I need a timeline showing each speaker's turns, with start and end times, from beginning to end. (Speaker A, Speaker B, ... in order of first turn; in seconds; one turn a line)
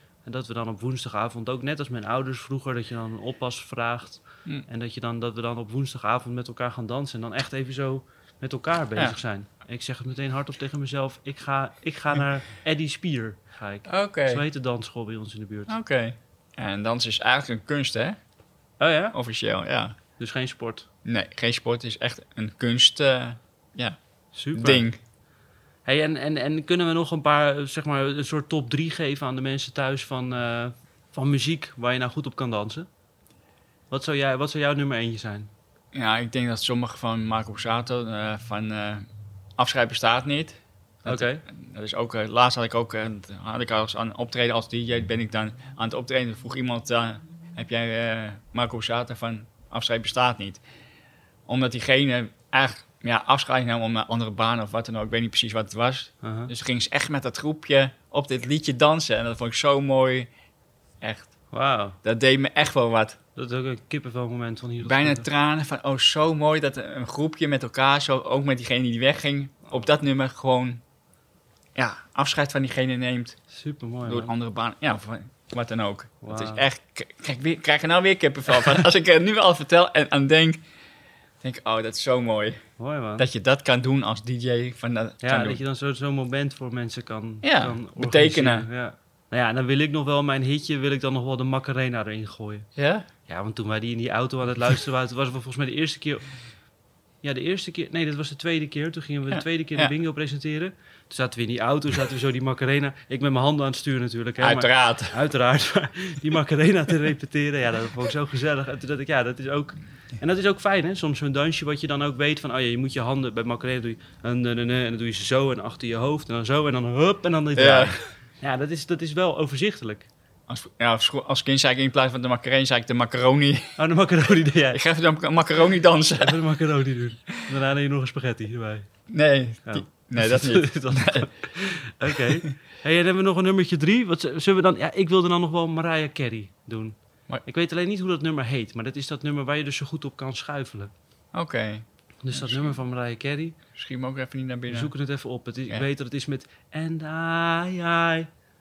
Speaker A: 0.2-15.7
Speaker B: 13.9-14.4
Speaker B: 15.7-18.2
Speaker A: 18.8-19.1
Speaker B: 19.1-20.0
Speaker A: 20.2-20.9
Speaker B: 21.1-24.0
Speaker A: 24.4-24.9
Speaker B: 24.6-25.0
Speaker A: 25.9-32.9
Speaker A: 33.9-35.5
Speaker B: 35.9-39.0
Speaker B: 39.6-50.6
Speaker A: 41.1-41.5
Speaker B: 51.5-60.3
Speaker A: 56.2-56.5
Speaker B: 61.0-61.3
Speaker A: 61.5-62.0
Speaker B: 62.0-63.2
Speaker A: 63.4-65.3
Speaker B: 64.8-70.8
Speaker B: 71.8-73.4
Speaker A: 73.5-74.3
Speaker B: 74.1-80.6
Speaker A: 76.2-76.7
Speaker B: 81.4-82.6
Speaker A: 82.8-83.3
Speaker B: 83.2-85.6
Speaker A: 85.2-92.7
Speaker B: 87.4-88.7
Speaker B: 92.8-93.1
Speaker A: 93.3-96.2
Speaker A: 97.2-120.1
Speaker B: 99.3-99.9
Speaker B: 104.4-105.2
Speaker B: 117.6-118.0
Speaker B: 120.5-123.8
Speaker A: 123.8-124.8
Speaker B: 124.7-126.4
Speaker A: 126.2-128.9
Speaker B: 129.1-131.3
Speaker A: 129.7-140.9
Speaker B: 141.3-142.7
Speaker A: 142.2-143.6
Speaker B: 143.8-144.9
Speaker A: 144.7-148.3